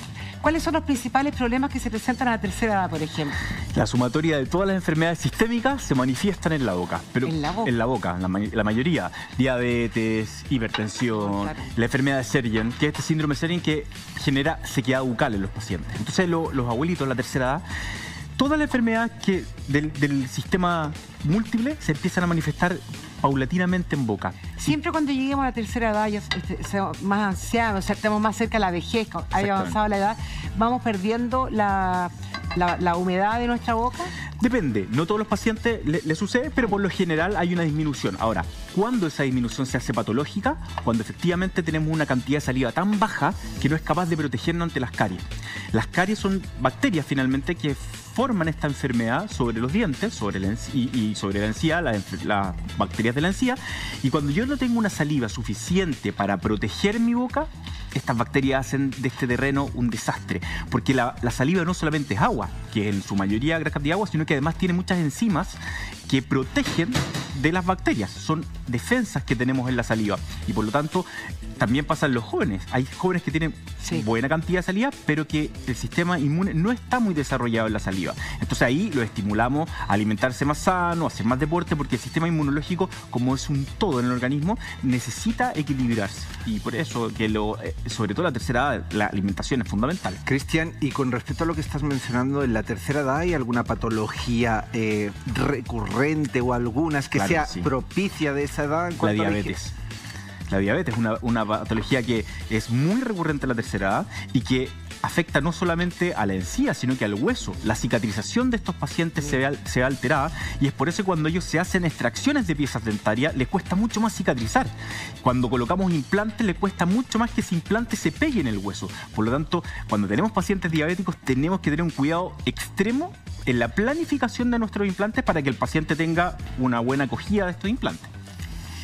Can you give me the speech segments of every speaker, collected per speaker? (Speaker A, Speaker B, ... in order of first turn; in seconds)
Speaker A: 0.4-3.4, 7.2-7.7, 11.1-11.7, 24.6-34.1
Speaker B: 3.7-17.6, 18.4-24.7, 29.4-29.8, 34.4-65.6, 66.1-71.0, 71.6-90.2, 97.1-97.7, 99.0-99.7, 100.5-114.7, 115.2-128.1
Speaker C: 90.2-99.5